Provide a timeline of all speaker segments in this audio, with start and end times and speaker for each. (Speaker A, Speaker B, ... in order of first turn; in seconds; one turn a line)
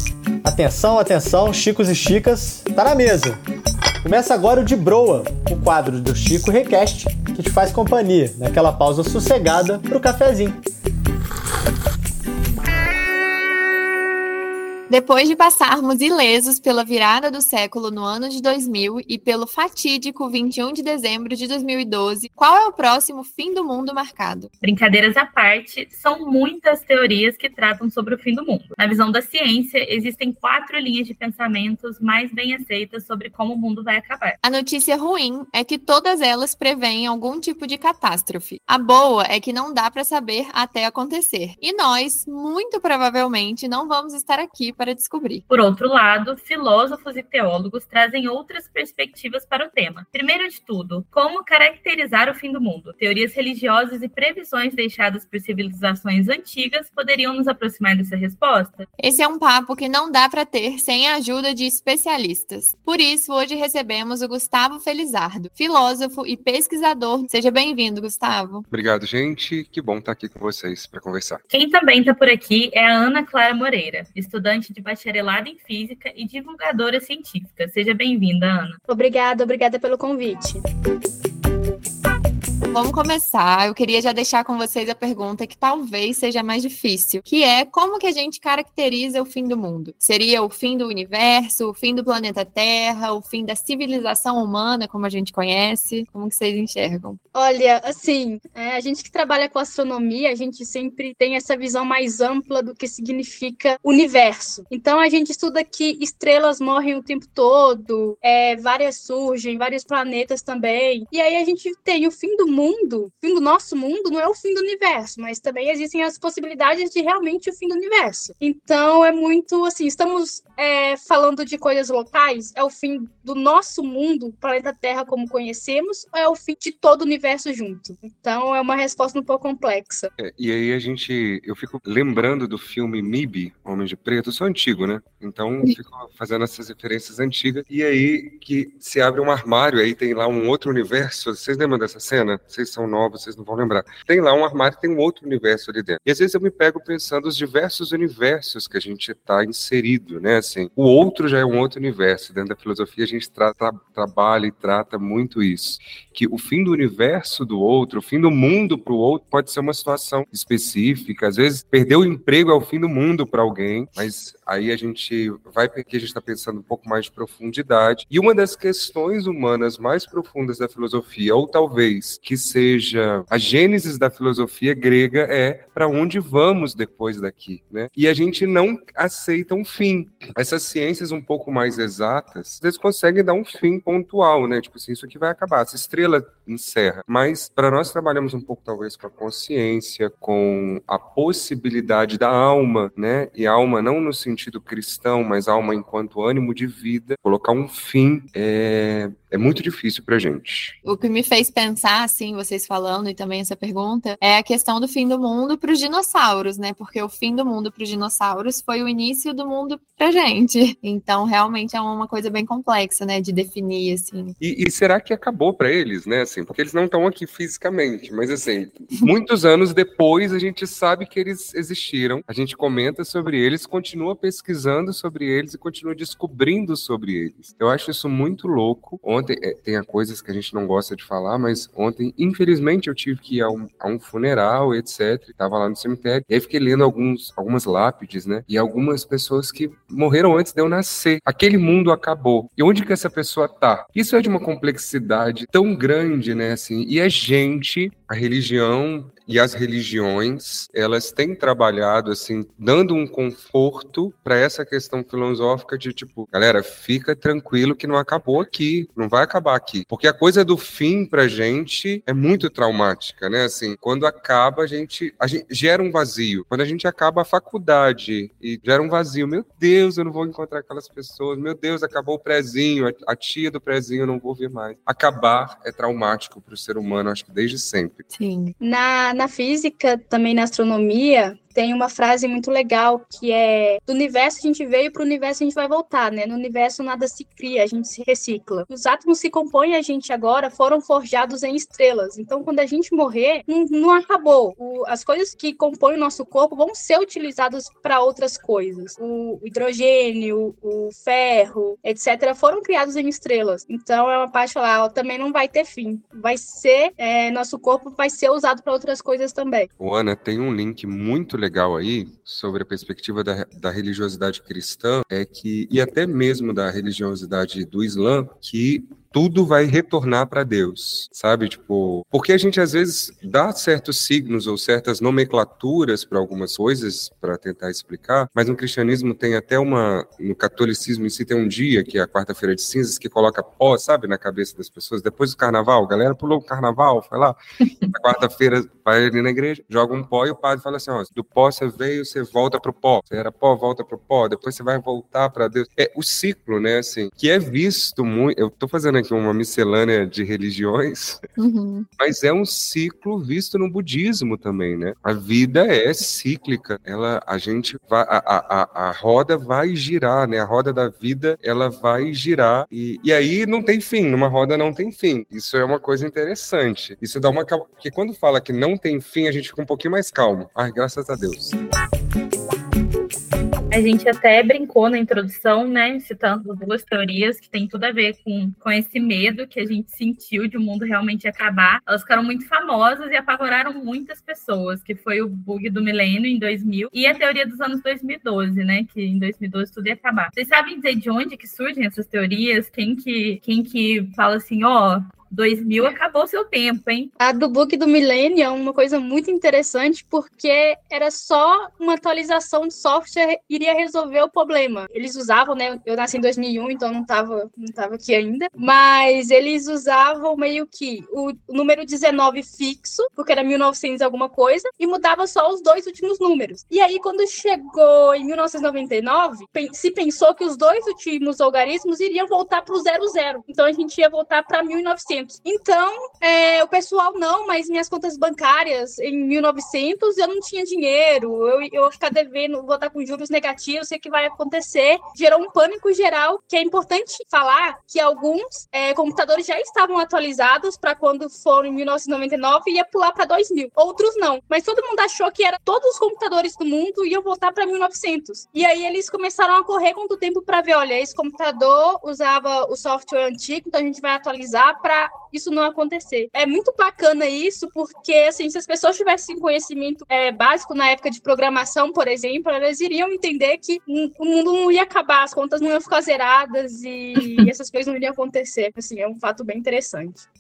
Speaker A: 0.4-3.4
Speaker A: 4.0-10.6
Speaker B: 14.9-24.5
Speaker C: 24.6-34.4
Speaker B: 34.4-45.5
Speaker C: 45.5-58.9
Speaker B: 59.0-68.7
Speaker D: 68.7-71.4
Speaker C: 71.5-78.8
Speaker E: 78.9-80.6
Speaker B: 82.7-97.2
Speaker E: 97.3-130.1
Speaker D: 130.2-200.8
Speaker B: 200.8-214.4
Speaker D: 214.4-278.0
Speaker B: 278.1-278.6
Speaker E: 278.6-309.7
Speaker D: 309.8-337.4
Speaker D: 337.9-351.2
Speaker B: 351.4-351.9
Speaker D: 352.0-371.6
Speaker C: 373.7-397.1
Speaker E: 397.2-470.2